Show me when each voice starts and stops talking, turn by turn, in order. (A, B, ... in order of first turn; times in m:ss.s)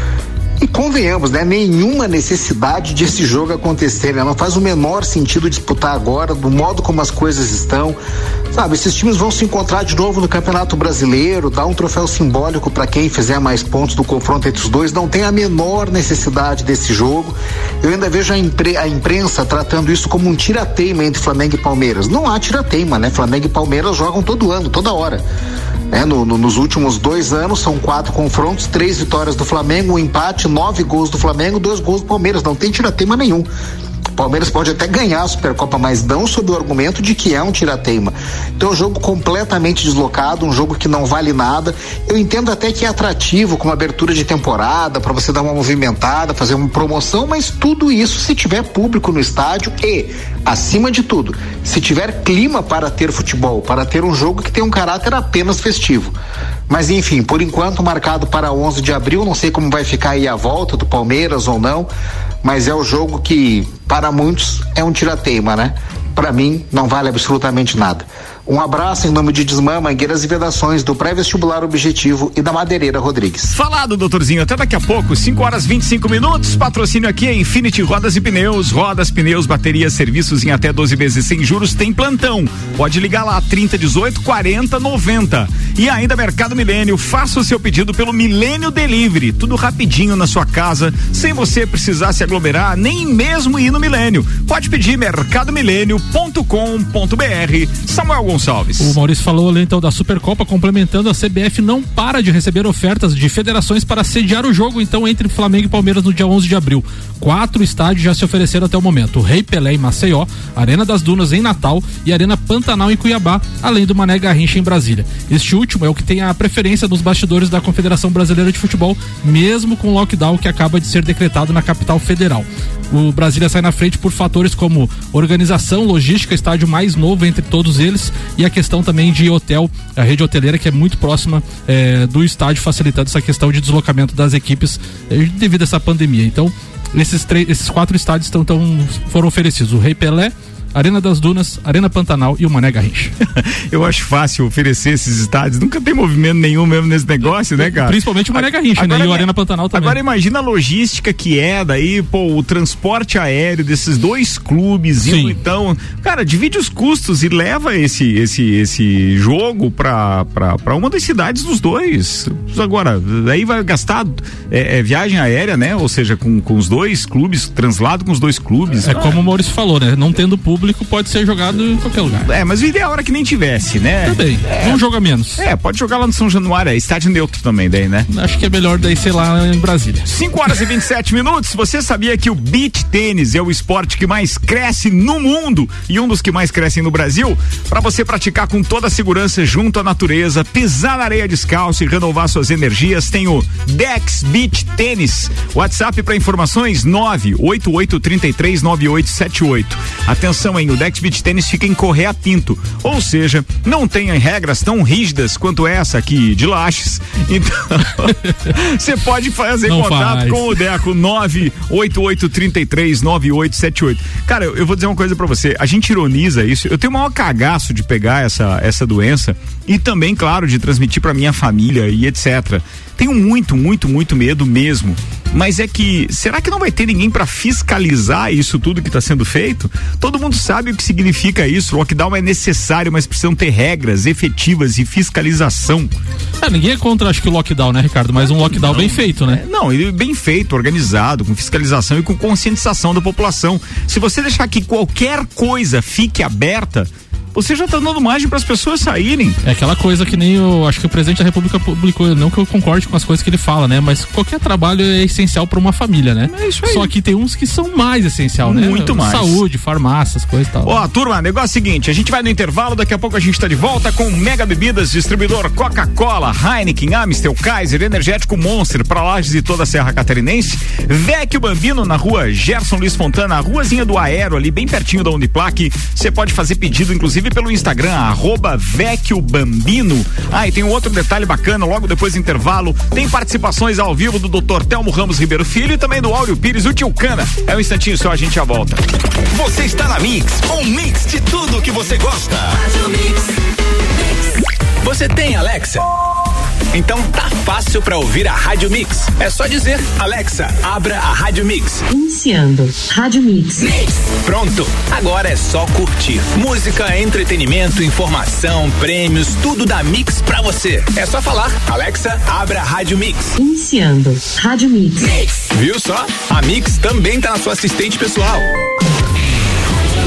0:00.6-0:08.0 A
0:08.5-0:25.2 A
0:25.9-0:33.5 A
0:34.1-0:56.2 A
0:56.7-1:01.9 A
1:02.4-1:13.5 A
1:13.5-1:38.9 B
1:38.8-2:23.1 C
2:23.4-2:49.2 B
2:27.6-2:30.0 C
2:35.0-2:35.4 C
2:48.9-2:52.3 C
2:52.2-2:54.8 B
2:54.0-2:55.4 C
2:55.4-2:58.1 B
2:58.1-3:00.1 C
3:00.1-3:55.9 B
3:29.7-3:30.5 C
3:56.4-3:59.4 C
3:58.2-4:09.4 B
4:09.4-4:20.8 C
4:16.3-4:16.9 B
4:18.4-4:19.4 B
4:20.6-4:48.8 B
4:49.3-4:53.0 D
4:54.8-4:55.8 D
4:56.7-5:01.8 D
5:01.9-5:03.7 E
5:03.8-5:13.4 D
5:13.4-5:15.1 E
5:15.1-5:18.5 D